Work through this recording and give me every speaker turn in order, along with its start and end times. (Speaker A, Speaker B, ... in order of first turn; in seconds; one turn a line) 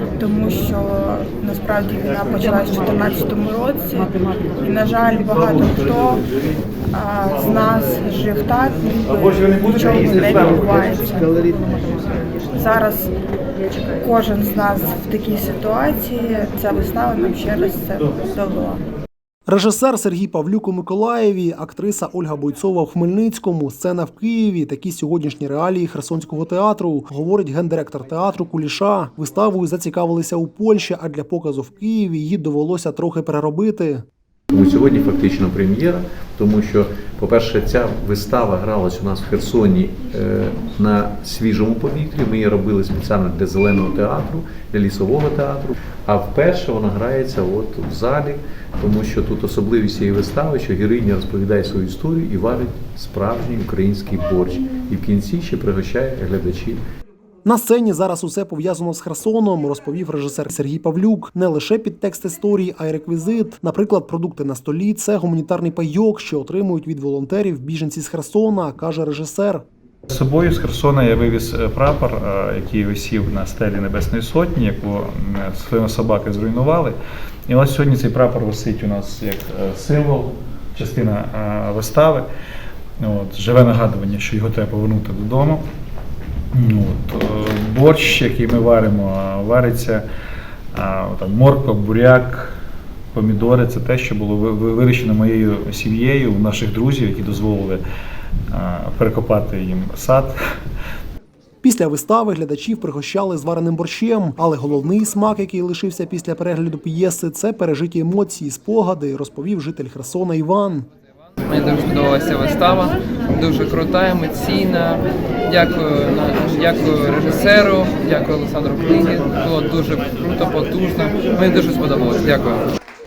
Speaker A: 0.2-6.2
Speaker A: 6.9-11.5
Speaker A: 12.5-13.1
Speaker A: 13.9-18.8
Speaker B: 19.5-34.0
Speaker C: 34.5-56.8
Speaker B: 57.4-69.7
Speaker D: 70.1-77.0
Speaker D: 77.5-82.2
Speaker D: 83.0-85.6
Speaker D: 86.5-90.0
Speaker D: 90.7-92.5
Speaker D: 93.1-97.8
Speaker D: 98.5-100.3
Speaker B: 101.6-110.9
Speaker E: 111.5-122.7